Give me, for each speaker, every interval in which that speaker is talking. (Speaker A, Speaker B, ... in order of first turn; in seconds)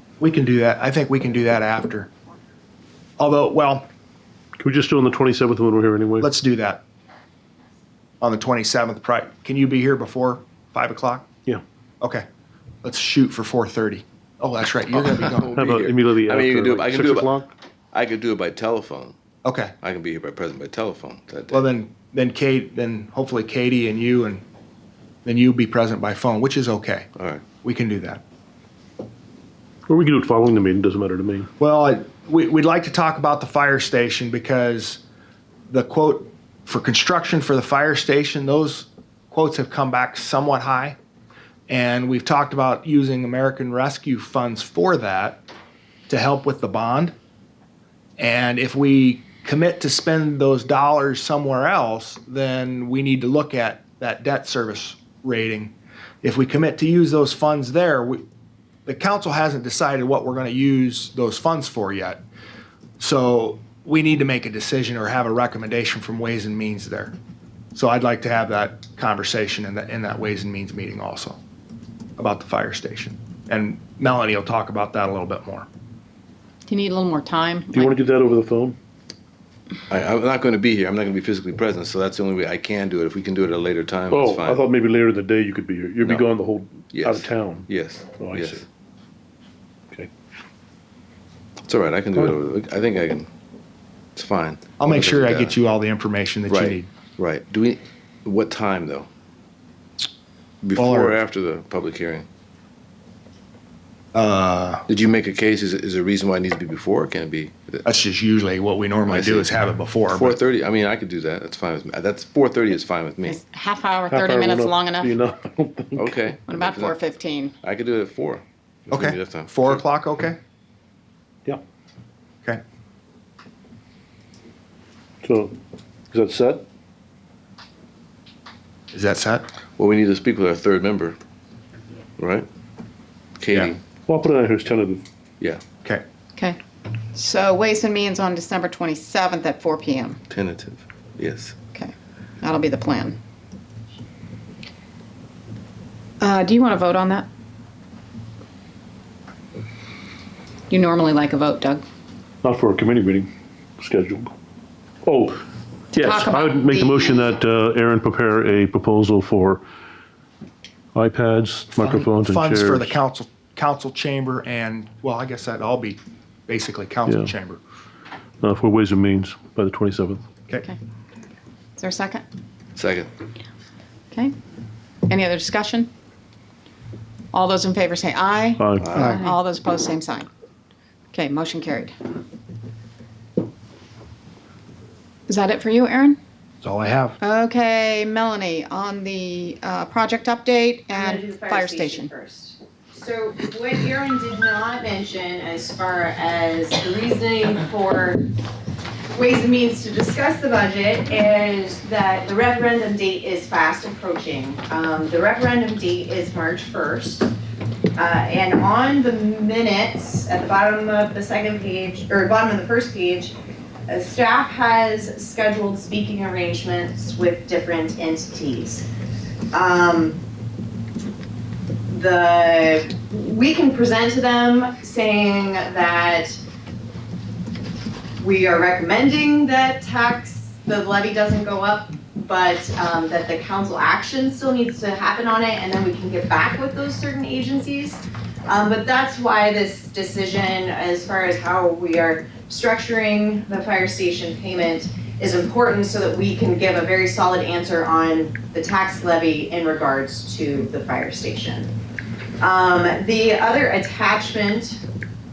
Speaker A: 0.2-2.1, 3.2-3.9, 6.2-6.8, 8.2-11.3, 12.8-15.7, 19.4-19.7, 21.5-24.4, 25.2-27.1, 27.6-28.2, 31.6-35.0, 35.7-41.0, 41.7-45.4, 46.1-47.1, 48.2-58.2, 58.9-62.2, 63.0-67.1, 67.8-71.4, 72.2-75.7, 94.8-96.9, 100.8-101.2, 104.1-104.9, 107.8-110.4, 118.9-120.4, 128.9-129.4, 161.8-167.6, 186.6-187.2
Speaker B: 4.6-6.3, 15.6-17.5, 29.9-31.5, 77.7-78.8, 84.1-88.7, 114.1-116.2, 125.2-125.5, 126.1-126.6, 134.1-135.0, 152.4-154.3, 155.1-155.4, 155.9-159.6, 160.9-162.9, 167.1-167.3, 168.4-170.2, 178.6-179.1
Speaker C: 14.9-17.4, 17.9-19.2, 19.8-21.6, 27.2-27.4, 79.9-84.7, 86.0-86.3, 86.9-88.7, 91.7-93.3, 94.2-95.6, 96.5-99.1, 100.6-102.3, 104.9-107.8, 109.1-109.5, 110.1-113.4, 116.0-117.0, 117.6-119.8, 129.8-131.2, 132.2-132.5, 133.4-133.8, 140.3-141.6, 172.8-173.1, 178.8-179.1
Speaker D: 76.7-78.0, 113.3-115.1, 116.5-117.5, 137.1-140.2, 141.7-143.2, 146.2-147.3, 150.7-151.8, 156.0-157.4, 171.8-172.2, 175.1-175.9, 177.3-180.3, 181.1-181.9, 185.3-186.2, 187.2-192.1
Speaker E: 190.9-198.2, 199.2-207.3, 208.0-213.3, 213.9-218.9, 219.5-220.2, 221.9-226.4, 228.2-251.7, 252.4-254.8